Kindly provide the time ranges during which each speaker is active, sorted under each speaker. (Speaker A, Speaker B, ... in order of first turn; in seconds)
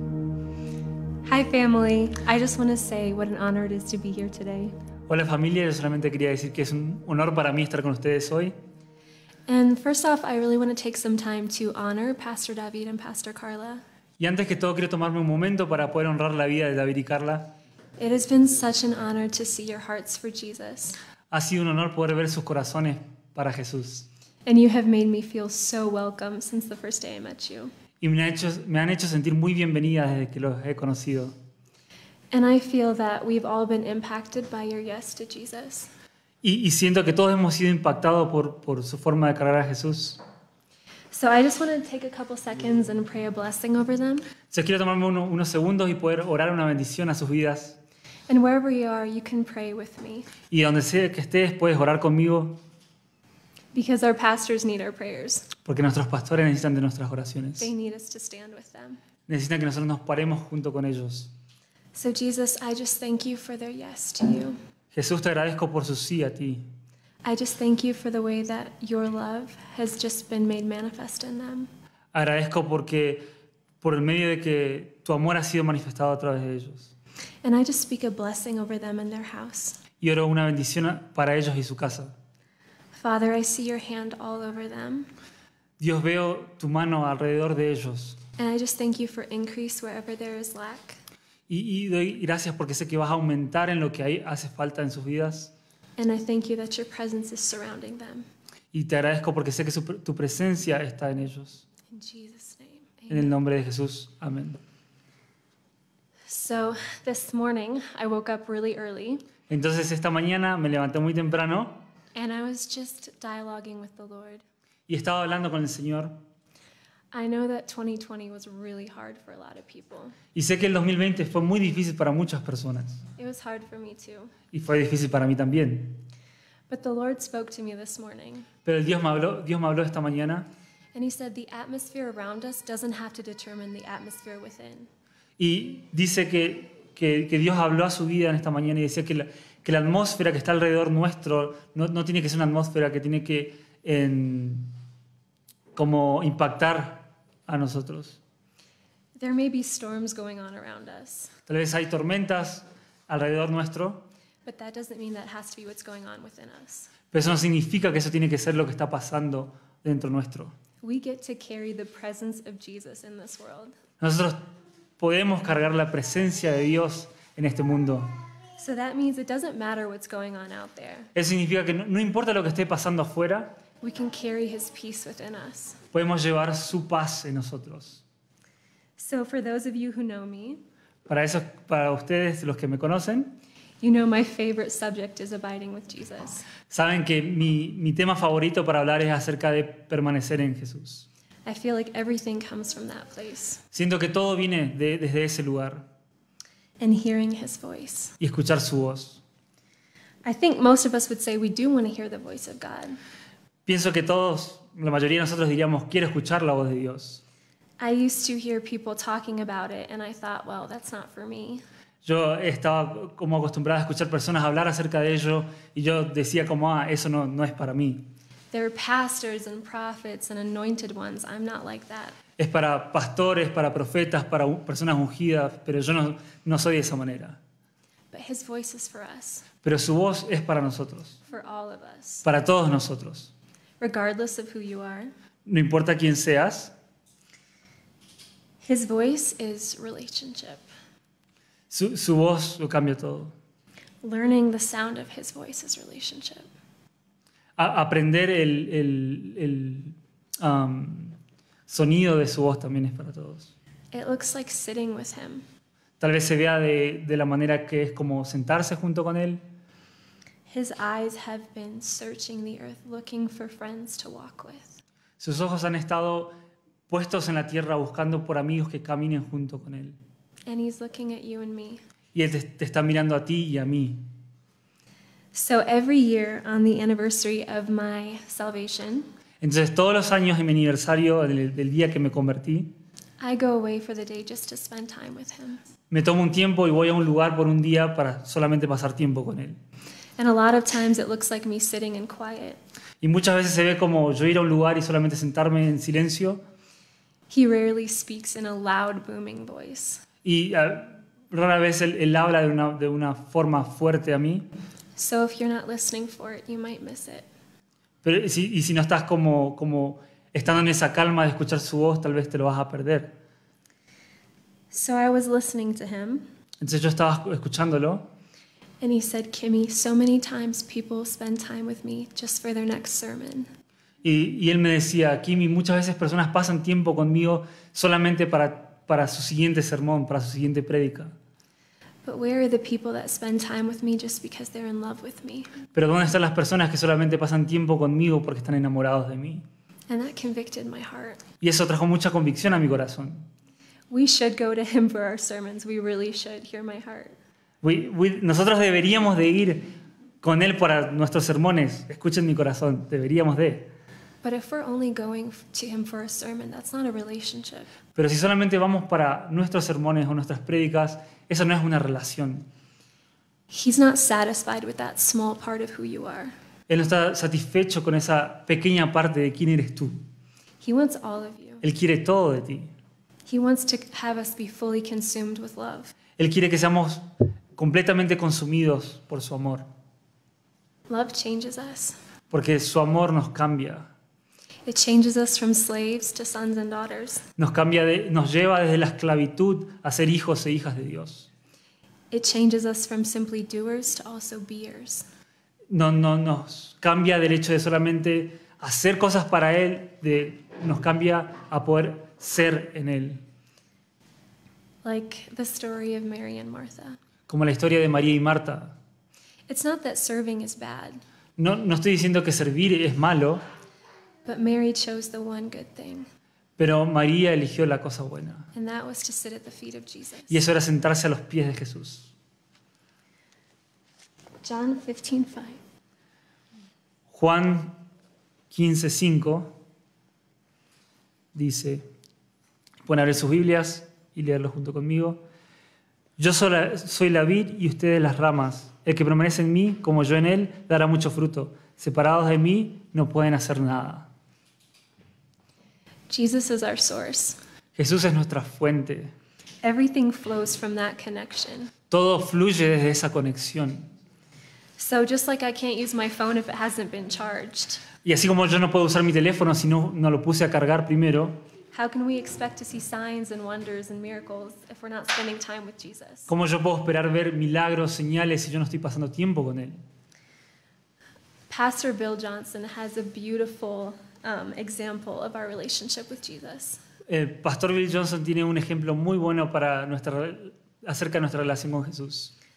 Speaker A: 1.2-4.7, 9.5-13.8, 18.0-21.0, 24.4-27.7, 32.3-35.9, 41.1-44.3, 48.3-50.3, 53.7-55.5, 57.6-59.0, 61.9-64.6, 67.2-71.7, 77.4-79.8, 82.9-85.1, 88.4-91.0, 96.0-98.3, 101.9-103.3, 106.3-109.2, 112.1-114.4, 117.1-120.1, 123.2-124.3, 126.7-128.5, 130.9-134.9, 149.2-151.3, 154.4-156.9, 160.8-163.8, 168.6-171.1, 173.8-175.8, 179.0-180.6, 183.8-186.5, 191.4-193.6, 196.8-198.2, 200.2-203.0, 207.8-211.6, 218.5-222.2, 228.1-229.4, 231.2-232.3, 233.8-235.1, 238.6-240.7, 244.0-246.5, 253.9-255.4, 260.5-264.8, 270.5-271.8, 275.3-279.1, 283.2-285.6, 290.2-292.6, 297.3-300.0, 304.9-307.3, 314.7-316.2, 318.8-323.5, 332.0-335.5, 339.9-341.2, 343.9-347.2, 354.2-357.7, 363.5-366.3, 370.6-371.6, 373.2-375.9, 380.9-382.0, 384.6-387.2, 392.1-395.1, 404.8-407.0, 409.5-411.0, 414.2-416.1, 418.5-420.4, 424.4-425.6, 446.1-447.4, 449.6-451.7, 454.8-457.8, 461.7-466.3, 471.5-476.8
Speaker B: 5.1-8.6, 14.2-17.5, 21.3-24.1, 28.0-31.3, 36.4-40.2, 44.5-47.8, 50.5-52.6, 55.6-57.7, 59.3-61.3, 64.9-66.7, 72.1-73.2, 73.8-76.9, 80.0-82.1, 85.8-88.2, 91.5-95.5, 98.7-101.6, 103.1-104.6, 109.5-111.8, 114.9-116.1, 120.3-123.0, 124.5-126.0, 128.6-130.5, 135.4-144.7, 145.7-148.2, 151.5-154.0, 157.1-160.5, 164.0-164.4, 165.0-168.1, 171.1-173.5, 175.9-178.0, 181.1-183.3, 186.7-191.1, 193.7-195.8, 198.2-199.2, 203.7-207.2, 212.0-218.0, 222.4-227.4, 229.6-231.2, 232.2-233.3, 235.4-236.7, 241.7-243.3, 247.6-253.5, 256.0-259.4, 265.2-266.3, 266.9-270.0, 272.1-274.0, 279.4-282.7, 285.9-289.6, 293.0-296.4, 300.2-304.4, 308.0-313.1, 316.6-318.1, 324.0-331.1, 335.7-339.4, 341.4-343.3, 347.6-349.7, 350.2-353.7, 357.9-362.4, 366.7-370.0, 371.6-372.7, 376.2-377.0, 377.6-379.6, 382.3-383.9, 387.4-391.3, 395.7-403.2, 407.3-408.8, 411.4-413.4, 416.6-418.5, 420.3-422.1, 427.1-427.8, 428.5-429.5, 431.3-431.8, 432.9-435.2, 436.2-444.1, 447.7-449.1, 451.9-453.9, 458.0-461.4, 466.3-469.8, 477.1-482.3